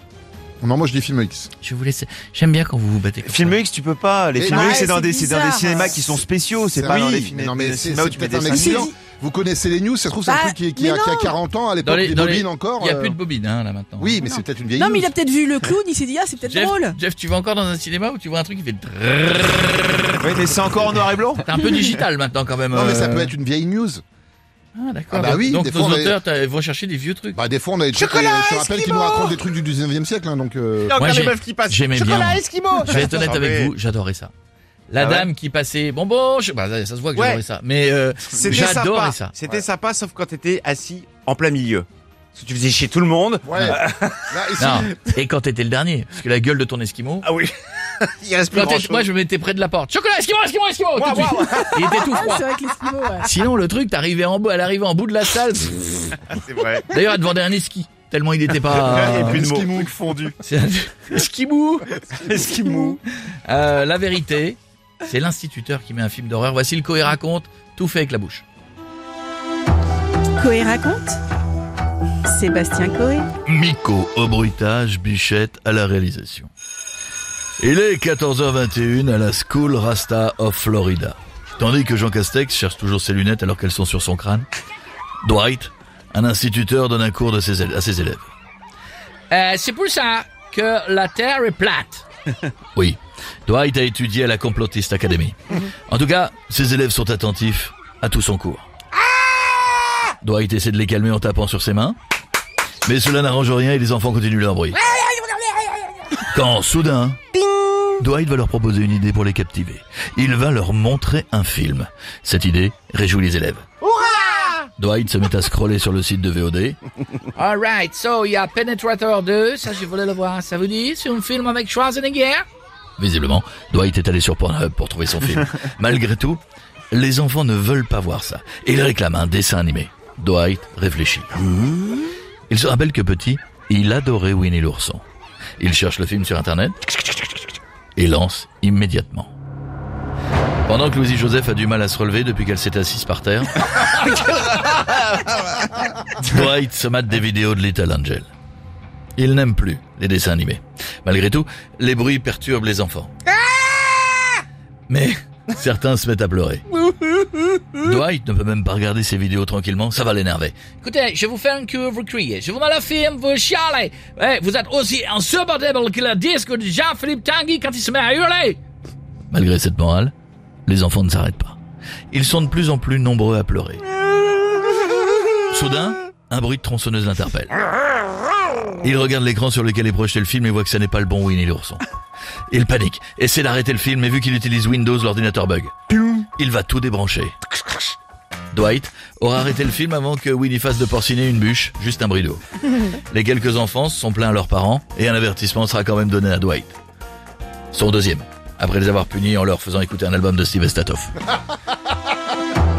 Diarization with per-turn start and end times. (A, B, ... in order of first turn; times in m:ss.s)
0:00.6-0:01.5 A
0:01.6-0:03.6 B
0:03.2-0:08.9 C
0:04.3-0:04.9 A
0:04.4-0:06.1 D
0:06.7-0:13.2 A
0:08.5-0:08.9 D
0:10.3-0:11.3 D
0:11.8-0:14.2 B
0:14.0-0:15.1 A
0:14.2-0:17.0 D
0:16.5-0:20.9 B
0:20.2-0:21.4 C
0:21.4-0:23.3 B
0:22.7-0:24.0 A
0:24.8-0:27.4 B
0:25.1-0:26.2 A
0:27.3-0:31.0 A
0:27.9-0:29.4 E
0:30.8-0:33.7 E
0:31.0-0:34.3 B
0:34.9-0:39.3 B
0:35.0-0:35.3 E
0:37.1-0:37.4 E
0:38.3-0:44.8 E
0:43.4-0:44.9 A
0:44.6-0:47.3 B
0:47.2-0:49.1 E
0:48.5-0:52.5 B
0:51.0-0:52.1 E
0:51.4-0:53.3 D
0:53.2-0:56.2 B
0:56.3-0:57.0 E
0:56.9-0:59.5 B
0:58.7-0:59.8 E
0:59.0-1:00.3 A
1:00.4-1:02.0 B
1:02.1-1:03.0 E
1:02.6-1:03.0 D
1:03.4-1:08.4 B
1:10.4-1:11.2 D
1:12.2-1:13.3 D
1:13.4-1:16.5 B
1:17.6-1:24.5 B
1:25.2-1:28.3 B
1:29.3-1:32.0 B
1:32.8-1:38.7 B
1:40.2-1:42.0 B
1:42.8-1:44.8 B
1:44.9-1:45.6 E
1:46.2-1:47.2 B
1:48.0-1:53.7 B
1:53.9-1:54.6 E
1:54.8-1:56.8 B
1:57.3-2:02.4 B
2:03.0-2:06.4 B
2:06.9-2:11.5 B
2:12.5-2:15.0 B
2:15.6-2:16.8 B
2:18.0-2:19.3 B
2:20.7-2:24.0 B
2:26.1-2:28.3 B
2:29.2-2:33.1 B
2:34.9-2:36.6 B
2:37.7-2:48.6 B
2:49.3-2:50.1 B
2:50.7-2:51.6 B
2:52.1-2:53.8 B
2:55.5-2:57.5 B
2:58.8-3:01.8 B
3:02.5-3:07.3 B
3:08.5-3:16.8 B
3:17.7-3:21.2 B